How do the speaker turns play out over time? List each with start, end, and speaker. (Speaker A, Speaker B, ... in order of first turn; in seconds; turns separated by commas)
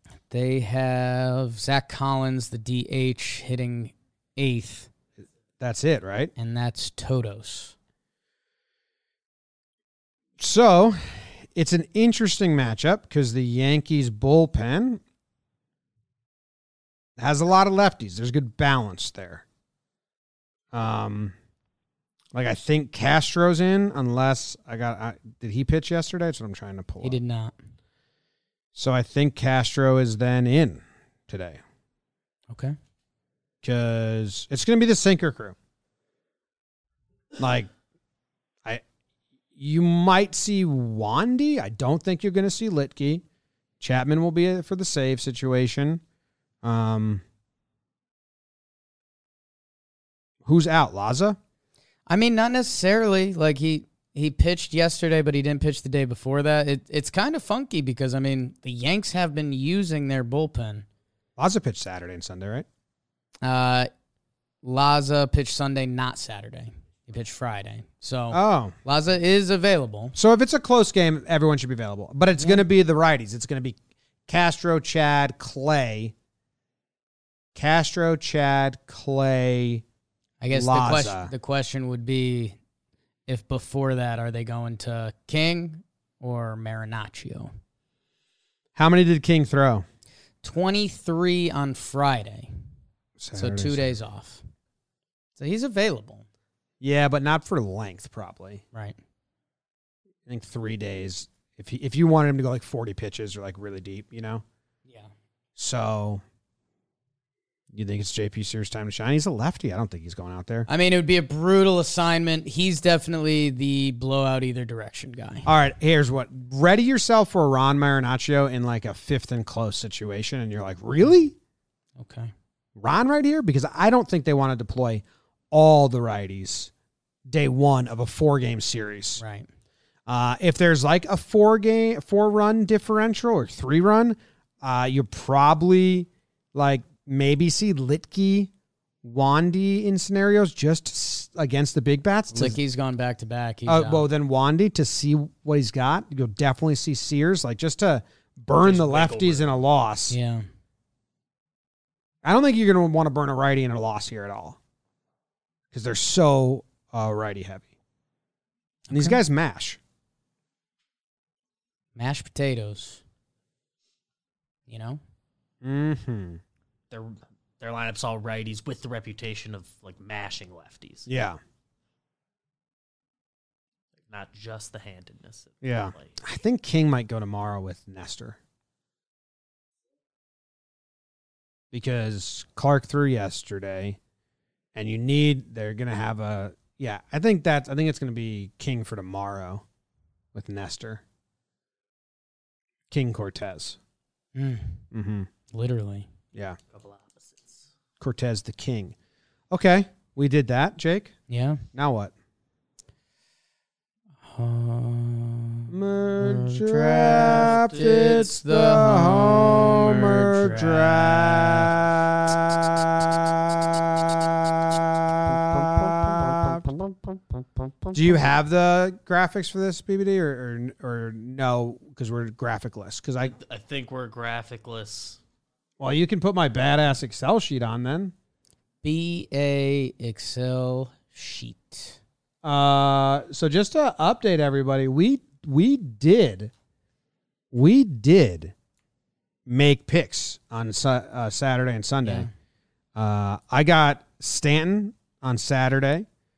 Speaker A: 0.3-4.9, Speaker B: 5.6-6.3, Speaker A: 6.3-7.7, Speaker B: 10.4-15.0, Speaker B: 17.2-19.4, Speaker B: 20.7-21.3, Speaker B: 22.3-27.2, Speaker A: 27.0-27.6, Speaker B: 28.7-31.6, Speaker A: 32.5-32.8, Speaker B: 33.6-35.5, Speaker B: 37.4-37.7, Speaker B: 39.5-43.2, Speaker B: 43.8-46.0, Speaker B: 46.6-47.2, Speaker B: 50.4-51.4, Speaker A: 52.1-60.9, Speaker B: 61.4-62.6, Speaker A: 63.4-63.9, Speaker A: 64.6-70.2, Speaker B: 68.3-68.7, Speaker B: 70.2-76.1, Speaker A: 72.3-72.6, Speaker B: 77.5-79.8, Speaker A: 80.4-82.6, Speaker B: 80.5-81.3, Speaker A: 83.3-87.5, Speaker B: 88.7-89.8, Speaker A: 90.4-92.5, Speaker B: 93.2-93.9, Speaker A: 93.3-94.4, Speaker A: 95.4-96.2, Speaker B: 96.8-98.6, Speaker B: 100.2-104.4, Speaker A: 104.8-105.1, Speaker B: 105.5-106.2, Speaker B: 107.7-110.7, Speaker A: 110.7-115.5, Speaker B: 115.4-121.3, Speaker A: 122.0-122.3, Speaker B: 122.8-126.7, Speaker B: 127.3-129.2, Speaker A: 129.2-129.5, Speaker B: 130.1-138.5, Speaker B: 139.0-142.6, Speaker A: 142.3-144.1, Speaker B: 143.7-150.2, Speaker C: 148.6-149.5, Speaker A: 150.1-150.4, Speaker B: 152.2-154.6, Speaker B: 155.7-157.7, Speaker A: 158.9-159.2, Speaker B: 158.9-159.8, Speaker A: 161.9-163.0, Speaker A: 164.7-165.0, Speaker B: 165.6-166.4, Speaker C: 166.9-171.1, Speaker B: 171.1-171.4, Speaker C: 174.1-176.2, Speaker B: 175.6-178.4, Speaker B: 181.7-184.0, Speaker B: 184.7-189.6, Speaker B: 190.3-191.0, Speaker B: 192.9-193.8, Speaker A: 194.3-194.8, Speaker B: 194.9-195.3, Speaker A: 195.5-196.1, Speaker C: 196.7-197.7, Speaker B: 198.0-198.9, Speaker B: 199.5-201.1, Speaker A: 201.3-201.6, Speaker B: 201.7-202.1, Speaker A: 204.2-211.8, Speaker B: 205.7-216.7, Speaker C: 207.1-208.1, Speaker B: 217.9-223.3, Speaker C: 223.3-225.2, Speaker B: 225.8-228.1, Speaker A: 228.8-232.0, Speaker B: 232.4-236.5, Speaker B: 237.5-238.5, Speaker B: 239.5-242.3, Speaker A: 242.0-242.3, Speaker B: 242.9-246.1